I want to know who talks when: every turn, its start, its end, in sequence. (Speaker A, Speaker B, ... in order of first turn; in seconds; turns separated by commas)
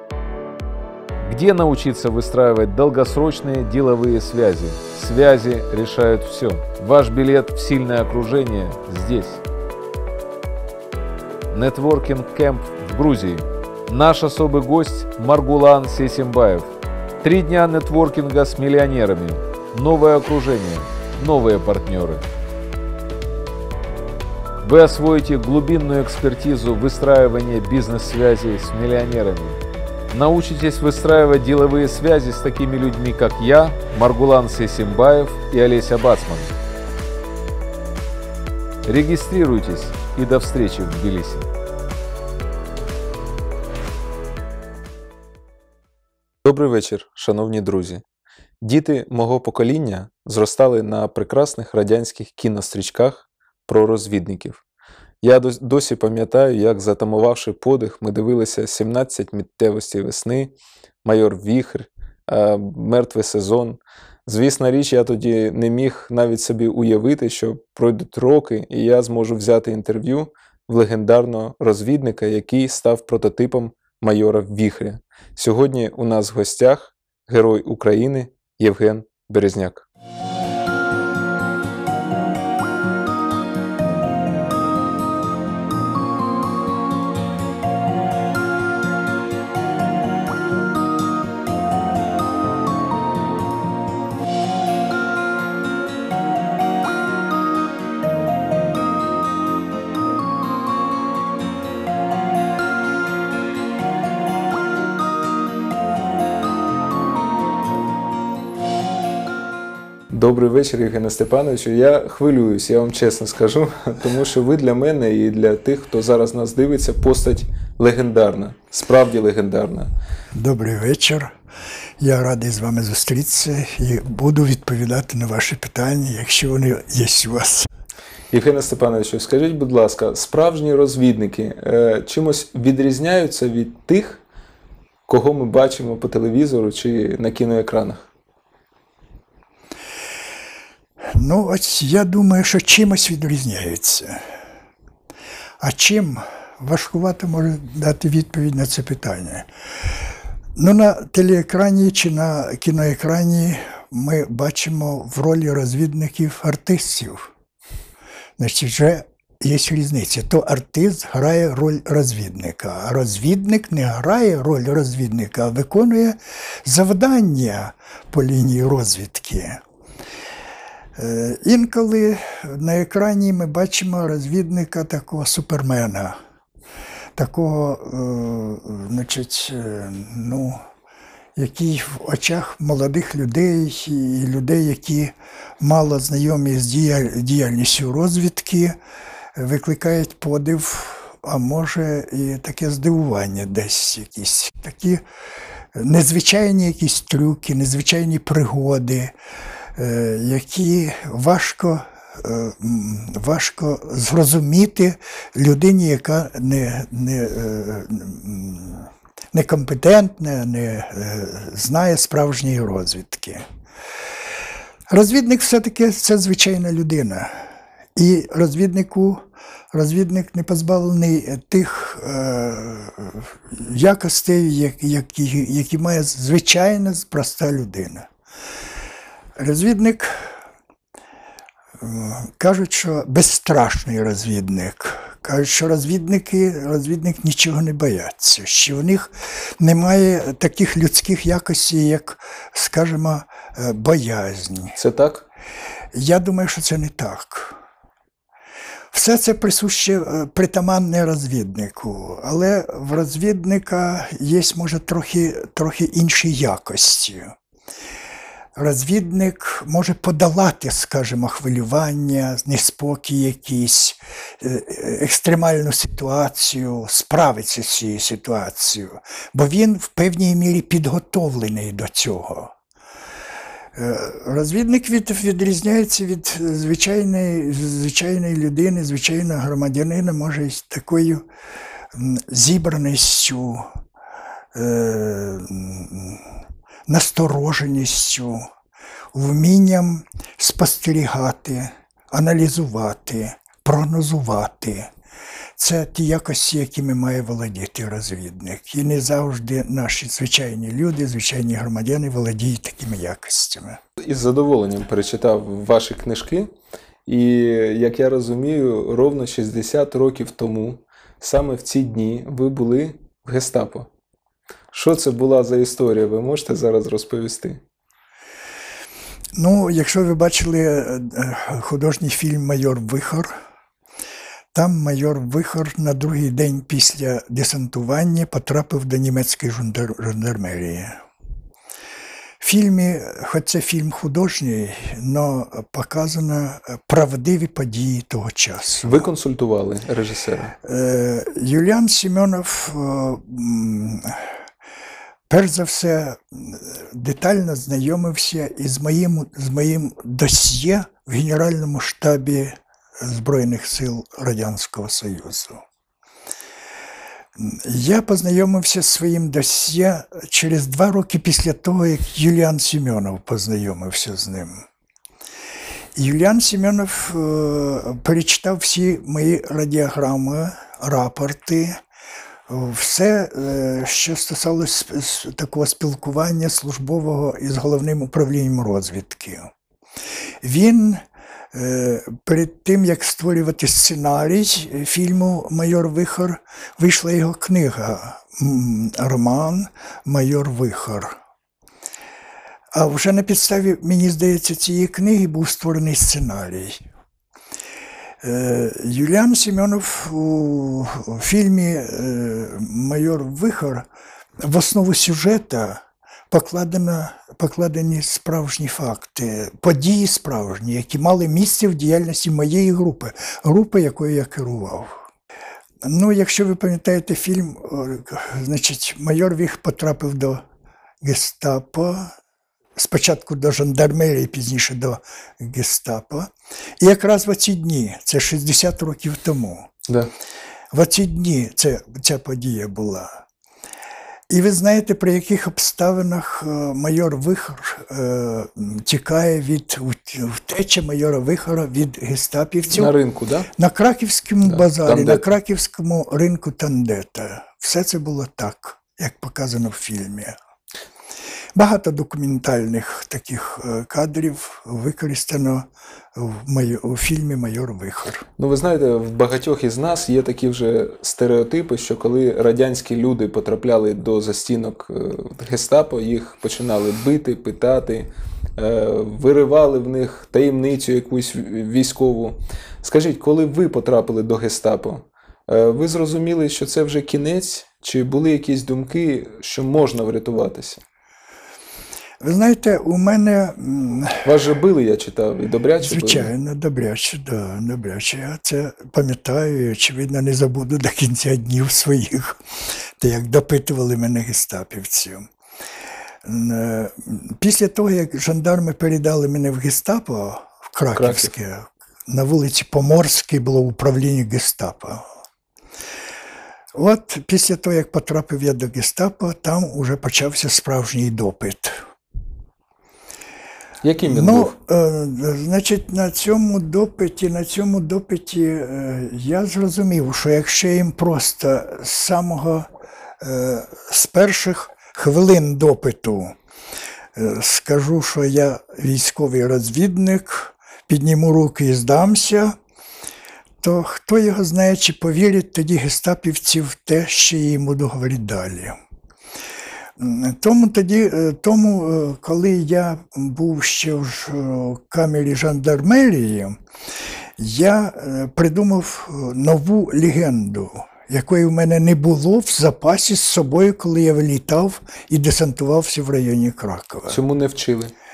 Speaker A: 1.3-9.4, Speaker A: 11.5-16.7, Speaker A: 17.2-22.2, Speaker A: 24.6-36.5, Speaker A: 38.9-41.5, Speaker B: 46.4-48.0, Speaker B: 48.6-54.6, Speaker B: 55.2-79.9, Speaker B: 110.1-119.9, Speaker C: 120.3-121.3, Speaker C: 122.0-127.7, Speaker B: 128.3-134.2, Speaker B: 135.1-138.1, Speaker C: 141.1-144.3, Speaker C: 145.6-149.5, Speaker C: 150.6-157.3, Speaker C: 158.4-169.6, Speaker C: 171.0-176.2, Speaker C: 177.2-180.6, Speaker C: 181.4-188.8, Speaker C: 189.3-195.0, Speaker C: 195.7-199.2, Speaker C: 199.8-213.4, Speaker C: 214.9-228.1, Speaker C: 229.4-230.4, Speaker C: 231.8-244.8, Speaker B: 244.8-245.3, Speaker C: 245.9-247.6, Speaker C: 248.9-257.3, Speaker C: 258.6-272.5, Speaker C: 273.8-281.3, Speaker C: 281.9-283.7, Speaker C: 284.5-286.3, Speaker C: 286.9-288.4, Speaker C: 289.1-294.9, Speaker C: 295.6-303.8, Speaker B: 304.0-306.5, Speaker B: 307.1-313.9, Speaker B: 314.7-317.6, Speaker C: 319.4-323.4, Speaker C: 324.5-331.0, Speaker C: 332.4-339.1, Speaker B: 338.9-340.6, Speaker C: 340.6-344.3, Speaker C: 345.3-355.6, Speaker C: 357.4-364.6, Speaker C: 365.9-371.8, Speaker C: 372.5-379.5, Speaker C: 380.4-391.2, Speaker C: 392.7-396.8, Speaker C: 398.2-403.9, Speaker C: 404.4-415.0, Speaker C: 415.8-420.4, Speaker C: 421.0-422.1, Speaker C: 422.8-429.7, Speaker C: 430.7-433.2, Speaker C: 434.3-442.9, Speaker B: 442.7-443.5, Speaker C: 443.6-450.4, Speaker B: 444.5-445.3, Speaker C: 451.6-458.3, Speaker B: 458.4-480.8, Speaker C: 482.2-484.3, Speaker B: 484.2-486.3, Speaker C: 485.8-492.4, Speaker C: 493.0-495.3, Speaker C: 496.2-505.1, Speaker B: 500.9-501.3, Speaker C: 506.7-511.8, Speaker B: 513.8-514.5, Speaker C: 514.0-526.4, Speaker C: 527.1-532.6, Speaker C: 533.6-538.8, Speaker C: 540.0-546.6, Speaker C: 547.4-557.2, Speaker B: 557.1-557.9